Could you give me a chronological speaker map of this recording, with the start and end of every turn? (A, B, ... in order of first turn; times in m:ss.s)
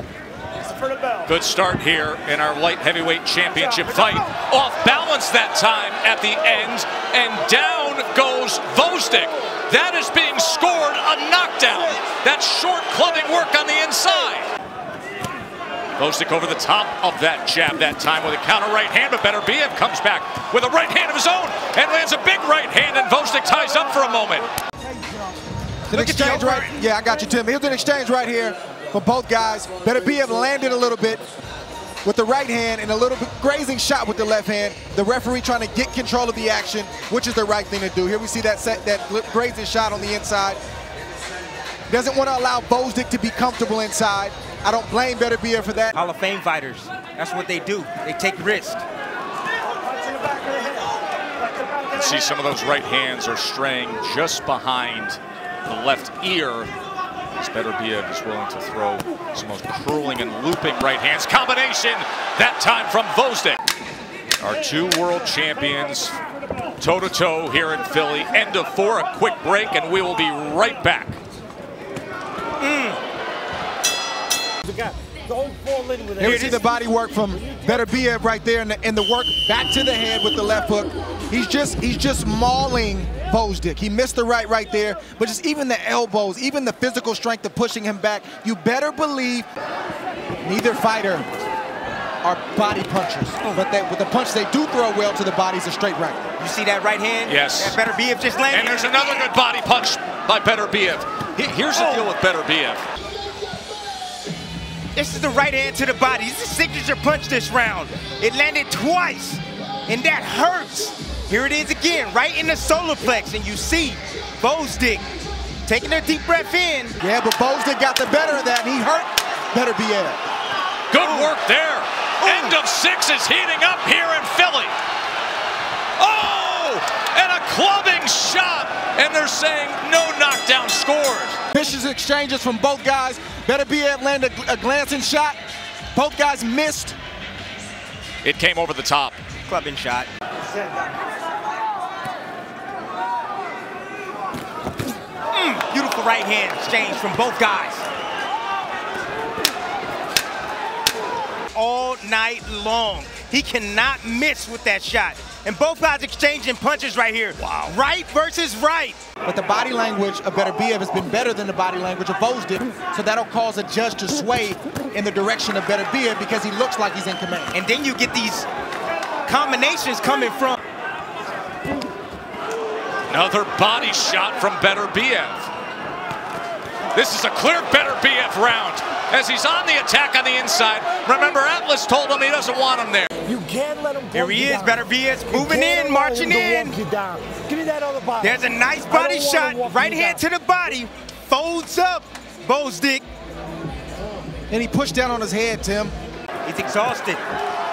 0:01.2-0:14.5 A
0:16.0-0:24.5 A
0:25.9-0:26.8 B
0:25.9-0:31.2 C
0:32.0-0:40.6 C
0:41.9-0:45.9 C
0:45.9-0:48.8 B
0:50.0-0:50.8 D
0:51.9-0:56.7 A
0:57.4-1:03.6 A
1:04.4-1:06.2 A
1:06.8-1:11.2 A
1:12.6-1:13.0 B
1:15.3-1:16.3 D
1:16.2-1:29.5 C
1:16.2-1:16.6 B
1:30.4-1:31.2 C
1:32.2-1:36.2 C
1:36.4-1:39.2 B
1:37.3-1:37.8 A
1:38.5-1:42.8 A
1:41.8-1:42.0 B
1:45.0-1:55.1 B
1:55.7-1:57.0 B
1:57.0-2:00.2 C
2:00.9-2:04.7 A
2:00.9-2:01.3 B
2:02.2-2:02.6 B
2:06.0-2:11.4 A
2:11.5-2:15.4 C
2:15.9-2:17.0 C
2:18.2-2:19.2 A
2:19.4-2:20.1 B
2:25.3-2:27.9 B
2:31.5-2:39.0 B
2:37.4-2:37.8 A
2:39.2-2:47.6 C
2:47.5-2:48.5 B
2:49.2-2:50.6 B
2:53.1-2:55.5 A
2:56.9-3:03.1 A
3:03.2-3:04.7 D
3:04.1-3:06.8 B
3:05.4-3:08.3 D
3:08.2-3:13.0 B
3:09.0-3:10.1 D
3:14.5-3:15.9 C
3:16.4-3:17.2 B